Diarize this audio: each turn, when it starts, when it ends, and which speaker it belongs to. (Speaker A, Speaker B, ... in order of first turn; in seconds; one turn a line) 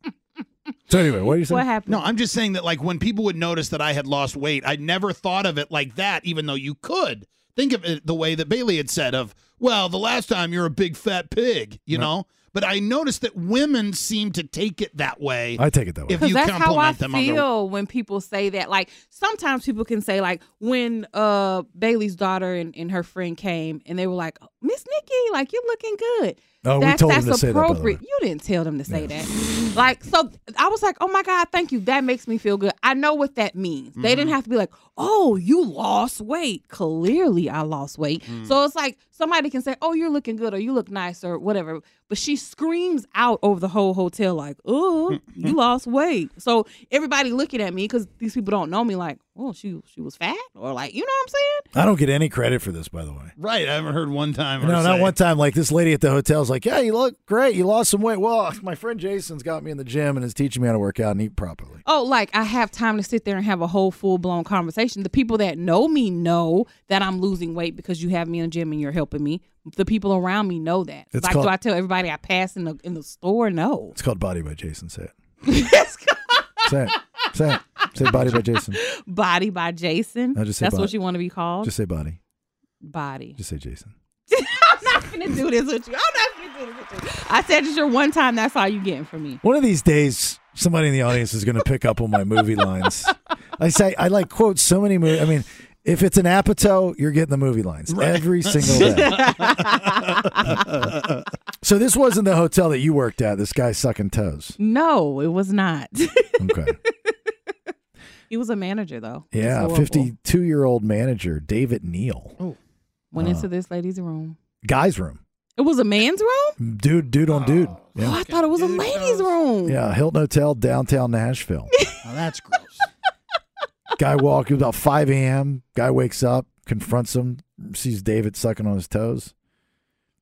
Speaker A: 0.9-1.6
Speaker B: 1.5-2.0
Speaker C: 1.9-17.4
Speaker A: 15.6-16.2
Speaker B: 16.2-51.6
Speaker A: 26.6-28.0
Speaker C: 34.0-34.3
Speaker C: 45.2-45.5
Speaker A: 51.7-53.3
Speaker C: 53.4-55.1
Speaker A: 54.6-61.8
Speaker B: 61.9-74.0
Speaker A: 71.1-71.5
Speaker A: 73.9-75.1
Speaker B: 75.5-76.6
Speaker A: 76.6-78.8
Speaker C: 78.0-78.3
Speaker B: 78.8-81.7
Speaker A: 80.3-80.9
Speaker A: 81.6-82.2
Speaker B: 82.8-83.4
Speaker A: 83.4-83.9
Speaker B: 84.3-89.4
Speaker A: 89.4-99.3
Speaker C: 97.9-101.2
Speaker B: 99.0-100.1
Speaker A: 101.6-104.5
Speaker B: 104.6-106.3
Speaker A: 106.4-106.8
Speaker B: 108.3-110.1
Speaker A: 109.3-112.3
Speaker B: 113.1-114.3
Speaker A: 113.2-113.5
Speaker A: 114.6-115.2
Speaker B: 115.6-116.5
Speaker A: 116.6-118.2
Speaker C: 117.3-119.4
Speaker B: 118.0-119.8
Speaker A: 119.7-121.7
Speaker C: 122.0-122.9
Speaker A: 124.0-129.3